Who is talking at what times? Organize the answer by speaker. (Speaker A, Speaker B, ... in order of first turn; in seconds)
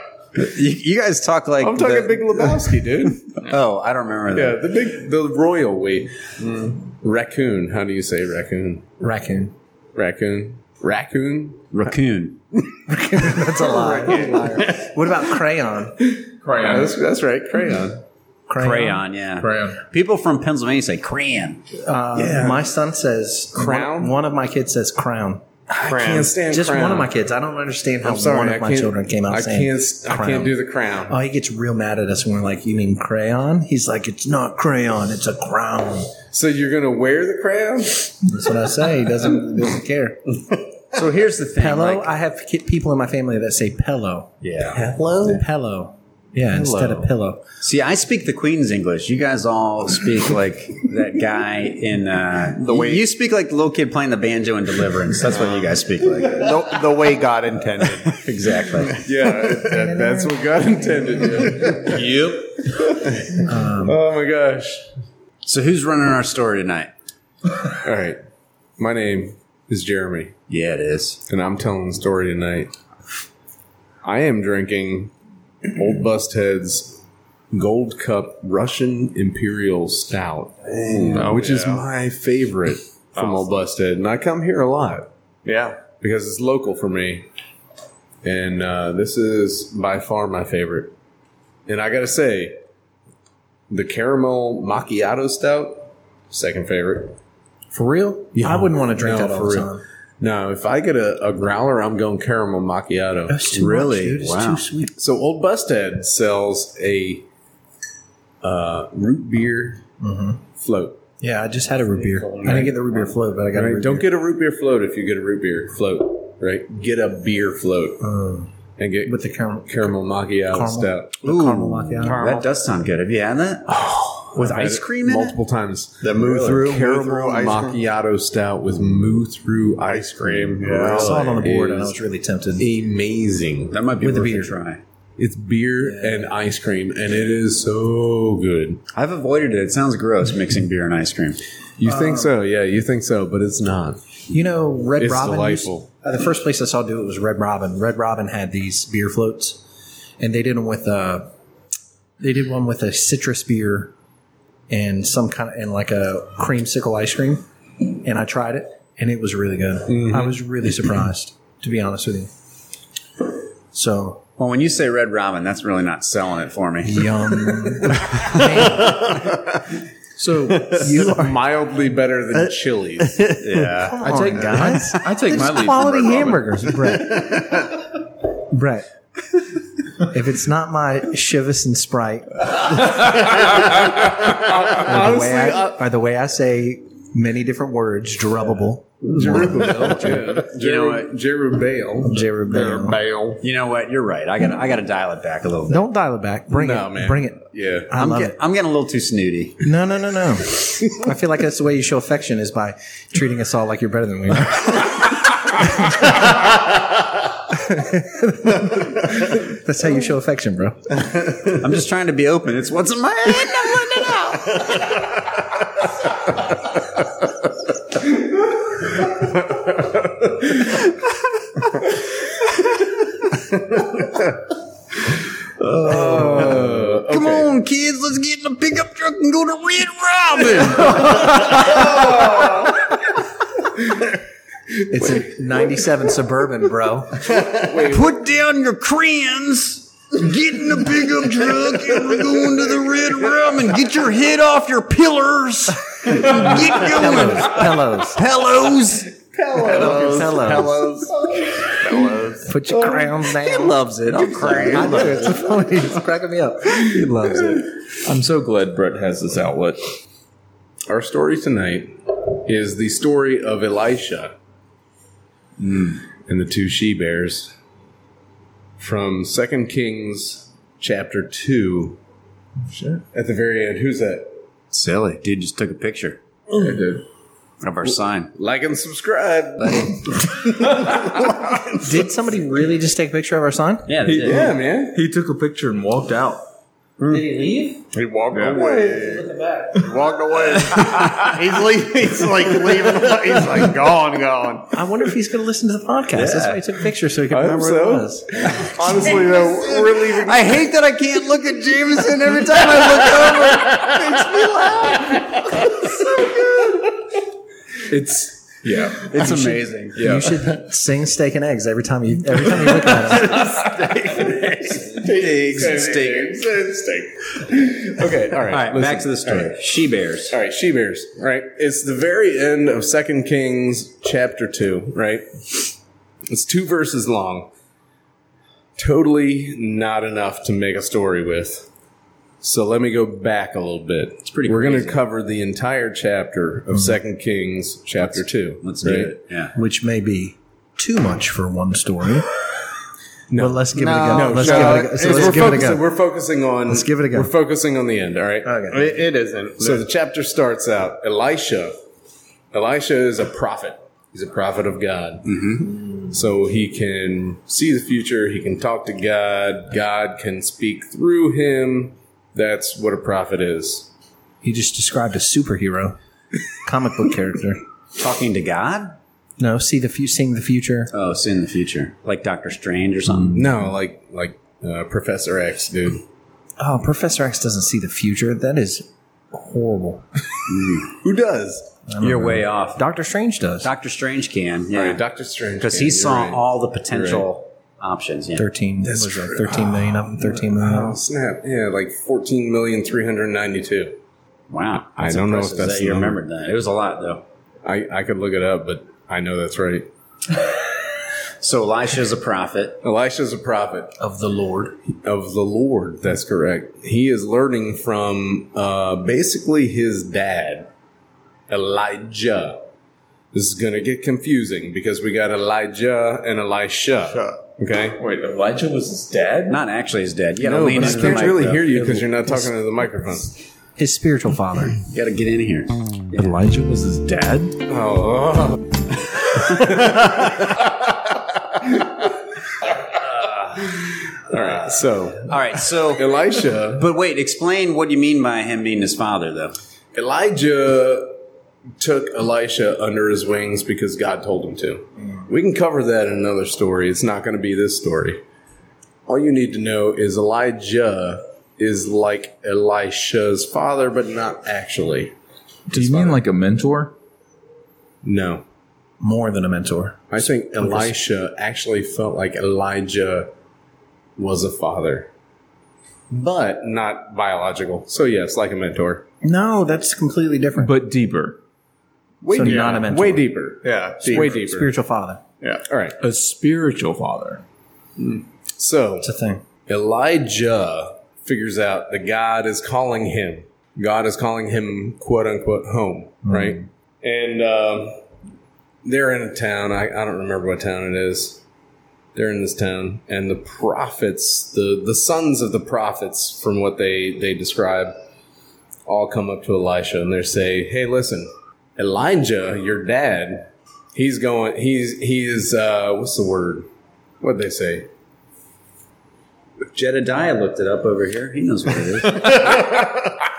Speaker A: 0.3-4.6, 11.7-12.4, 18.6-21.6, 40.9-42.1, 44.4-44.8, 47.6-56.6, 58.0-59.0, 65.4-66.9, 70.5-71.2, 103.5-104.6, 121.3-123.8, 124.3-125.4, 130.7-131.1, 133.7-134.8, 138.9-141.4, 164.4-168.2, 173.4-174.4, 190.5-191.0, 193.4-195.8, 197.9-199.6, 211.6-214.9, 225.9-232.3, 237.8-249.1, 253.5-255.3, 274.7-276.2, 277.6-278.3, 279.6-280.0, 283.9-284.5, 296.1-296.6, 300.1-305.4, 309.1-309.9, 313.0-316.3, 318.4-320.3, 334.2-335.0, 338.0-339.5, 355.3-355.6, 368.0-369.0, 370.9-373.5, 380.5-380.9, 382.0-382.8, 383.6-385.0, 385.6-388.4, 394.5-397.2, 401.4-402.8, 419.5-421.6, 424.9-426.3, 433.0-433.8, 435.2-439.6, 509.7-512.6
Speaker B: 1.6-3.3, 4.3-6.1, 6.8-8.8, 9.9-12.0, 13.3-14.7, 16.1-18.0, 22.1-22.6, 23.5-24.2, 25.8-27.1, 28.0-31.2, 36.3-38.2, 44.6-45.5, 46.5-47.1, 59.0-62.1, 62.8-64.8, 67.8-68.2, 68.8-70.3, 71.3-72.7, 74.0-75.1, 75.6-85.1, 85.8-87.3, 88.2-90.9, 91.7-92.5, 93.7-97.1, 98.3-103.8, 105.0-107.2, 108.4-109.8, 110.6-111.0, 113.5-118.0, 118.8-121.3, 123.7-132.0, 132.6-133.8, 135.2-138.8, 141.8-144.0, 145.0-145.9, 159.9-160.4, 170.9-173.2, 182.8-185.8, 189.1-192.3, 196.5-197.9, 219.2-220.7, 225.7-227.6, 230.9-232.8, 237.3-238.2, 249.2-250.6, 251.2-251.5, 252.8-253.3, 260.9-264.3, 265.6-267.5, 268.8-272.0, 272.9-274.4, 276.5-276.8, 277.8-281.4, 284.2-285.0, 288.3-289.2, 297.3-300.7, 304.2-305.3, 312.8-319.6, 320.3-325.8, 326.3-327.5, 328.8-331.7, 332.4-339.2, 343.3-348.6, 349.6-351.8, 352.5-363.9, 373.3-376.0, 380.9-381.7, 384.7-387.3, 388.8-394.0, 394.9-396.2, 397.6-399.9, 402.8-404.0, 405.0-410.7, 411.5-412.6, 413.3-418.0, 420.4-423.3, 427.7-430.9, 431.6-431.9, 433.7-435.4, 435.9-436.9, 439.9-441.2, 441.8-448.2, 449.1-455.1, 455.7-456.2, 458.0-458.4, 460.1-463.3, 464.2-465.1, 466.1-469.0, 472.2-474.7, 475.7-476.0, 478.6-479.1, 479.7-488.0, 488.8-491.4, 492.1-497.9, 498.9-506.7, 507.2-507.9
Speaker C: 6.4-6.8, 14.0-14.9, 25.9-26.3, 52.6-53.0, 55.3-55.6, 56.2-59.0, 80.9-81.8, 83.2-83.5, 85.4-85.8, 111.9-113.1, 122.0-122.5, 126.0-127.8, 129.8-131.3, 168.8-169.3, 173.0-173.9, 176.9-177.7, 189.2-189.7, 192.4-193.4, 249.7-252.5, 254.2-255.1, 287.0-287.3, 287.9-294.7, 299.1-299.5, 343.7-345.7, 348.7-349.8, 417.1-417.4, 472.3-472.9, 473.6-474.4, 478.0-478.2, 512.1-513.1
Speaker D: 9.0-9.5, 12.9-16.0, 18.5-19.0, 21.8-25.6, 26.4-30.5, 31.1-36.1, 38.2-40.3, 41.5-44.3, 45.2-47.4, 59.6-61.4, 63.4-64.0, 97.7-99.8, 103.3-104.9, 110.0-110.4, 111.2-114.1, 118.0-118.5, 119.0-122.4, 130.9-132.7, 134.0-134.6, 135.8-136.3, 141.8-142.3, 144.3-149.6, 150.2-151.3, 152.2-153.9, 154.7-162.3, 163.7-164.2, 166.8-169.1, 170.2-171.4, 173.8-177.5, 178.5-178.9, 179.9-183.6, 184.7-190.5, 192.0-193.0, 195.7-198.3, 199.6-206.2, 207.5-211.0, 225.9-226.5, 234.9-237.3, 246.2-248.2, 249.7-250.9, 252.4-257.7, 281.8-283.9, 294.7-298.7, 309.1-313.4, 336.7-337.0, 339.5-342.3, 343.4-345.9, 346.7-347.3, 348.4-348.8, 364.4-366.0, 366.6-367.6, 369.4-370.9, 376.6-380.0, 381.9-383.7, 388.4-391.0, 404.0-404.8, 420.6-423.2, 423.8-424.8, 459.0-460.9, 469.2-470.7, 472.3-473.3, 474.0-475.2, 479.0-479.4, 486.2-486.6
Speaker E: 16.4-17.0, 19.4-19.8, 61.7-62.8, 174.1-176.6, 258.0-259.9, 276.5-277.0, 284.0-286.5, 288.3-289.8, 307.9-309.2, 309.9-310.5, 418.0-419.6, 426.1-427.6, 455.7-456.9, 470.6-471.4, 476.0-477.4